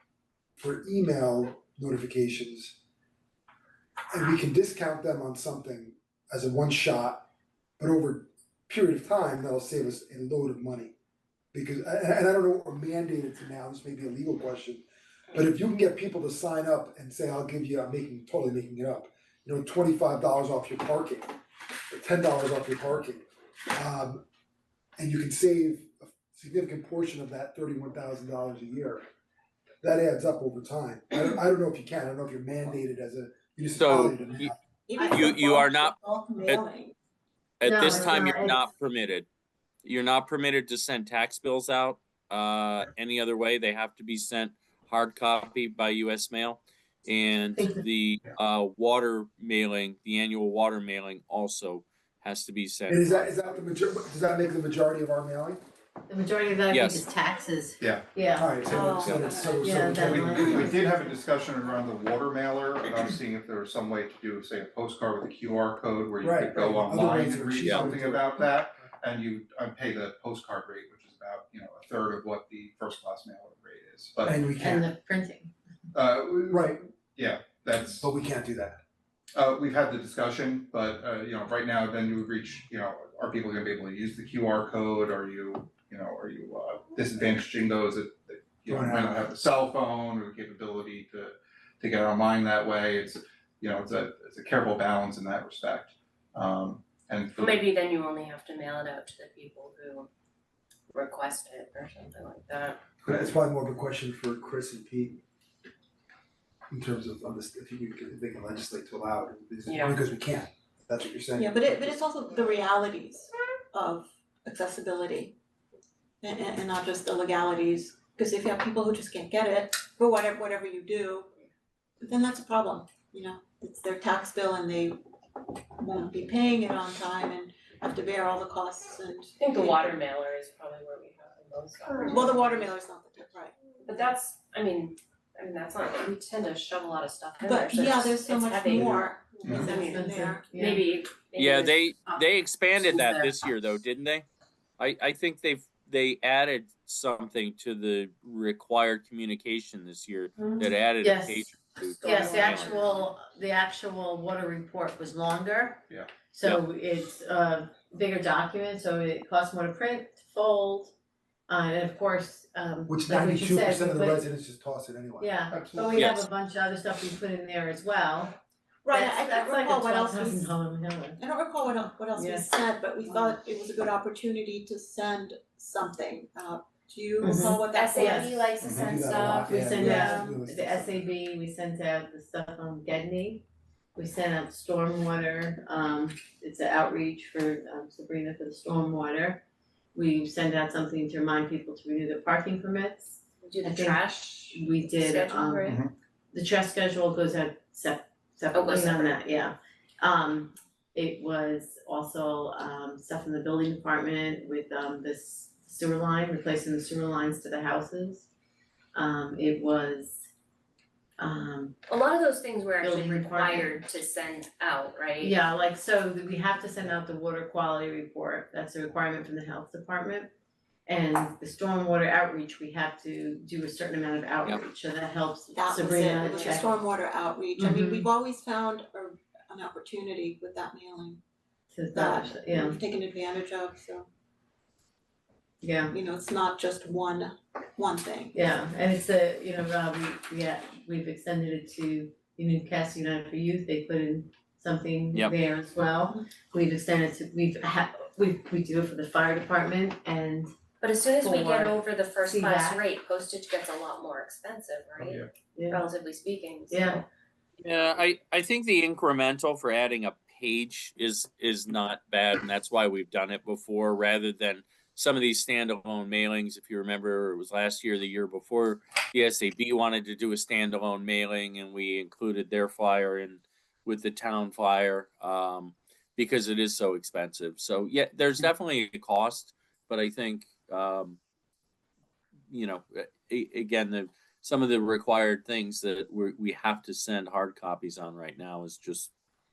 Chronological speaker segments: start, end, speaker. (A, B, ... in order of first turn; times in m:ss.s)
0:00.6-0:02.8 A
0:04.1-0:07.2 A
0:07.8-0:10.9 A
0:11.5-0:21.3 A
0:21.9-0:24.2 A
0:25.0-0:29.0 A
0:29.8-0:34.6 A
0:33.8-0:36.6 B
0:34.9-0:36.9 C
0:37.6-0:39.2 B
0:37.6-0:38.6 D
0:39.8-0:53.4 B
0:52.9-0:55.6 A
0:56.1-0:58.5 D
0:56.7-0:57.0 B
0:57.8-0:58.0 E
0:58.4-1:00.7 A
0:58.6-0:59.8 C
0:59.6-1:01.1 D
1:00.0-1:14.3 E
1:00.4-1:00.7 C
1:06.2-1:08.9 A
1:07.6-1:07.9 B
1:14.2-1:14.8 A
1:14.6-1:15.5 D
1:15.9-1:18.0 E
1:16.5-1:16.8 A
1:18.0-1:18.8 A
1:19.3-1:37.6 E
1:28.7-1:29.3 A
1:37.4-1:40.1 F
1:40.9-1:42.8 F
1:43.0-1:45.2 A
1:46.7-1:52.0 A
1:49.6-1:50.0 F
1:51.4-1:55.4 C
1:56.2-2:01.3 C
2:02.0-2:05.0 C
2:05.8-2:10.0 C
2:09.4-2:12.7 F
2:11.9-2:13.5 C
2:13.8-2:18.9 F
2:17.4-2:20.5 C
2:19.4-2:21.8 F
2:19.4-2:20.8 D
2:21.4-2:24.2 B
2:24.8-2:33.0 B
2:30.4-2:31.5 D
2:32.0-2:32.6 F
2:32.0-2:40.9 D
2:41.5-2:44.2 D
2:42.9-2:45.3 A
2:45.2-2:48.4 D
2:45.5-2:46.0 E
2:45.9-2:46.2 B
2:48.8-2:50.5 C
2:48.9-2:51.2 D
2:51.2-2:58.6 C
2:52.1-2:52.4 D
2:53.1-2:53.3 D
2:57.2-2:58.3 D
2:57.6-3:00.3 F
2:58.7-3:01.0 A
2:59.4-3:03.4 D
2:59.8-3:00.1 C
3:04.0-3:09.4 D
3:09.9-3:15.8 D
3:13.4-3:15.8 F
3:16.3-3:28.3 D
3:18.5-3:19.2 F
3:28.9-3:30.2 D
3:31.2-3:31.8 D
3:31.9-3:35.4 F
3:32.8-3:33.8 D
3:35.2-3:40.3 D
3:40.8-3:46.8 D
3:45.5-3:51.2 C
3:47.6-3:48.1 D
3:51.7-3:52.8 D
3:51.9-3:54.1 C
3:55.6-3:55.9 D
3:55.9-3:58.3 C
3:58.3-4:10.5 D
4:10.8-4:17.0 F
4:11.1-4:12.8 D
4:15.5-4:15.8 D
4:16.7-4:17.0 D
4:17.6-4:41.2 B
4:42.5-4:49.1 B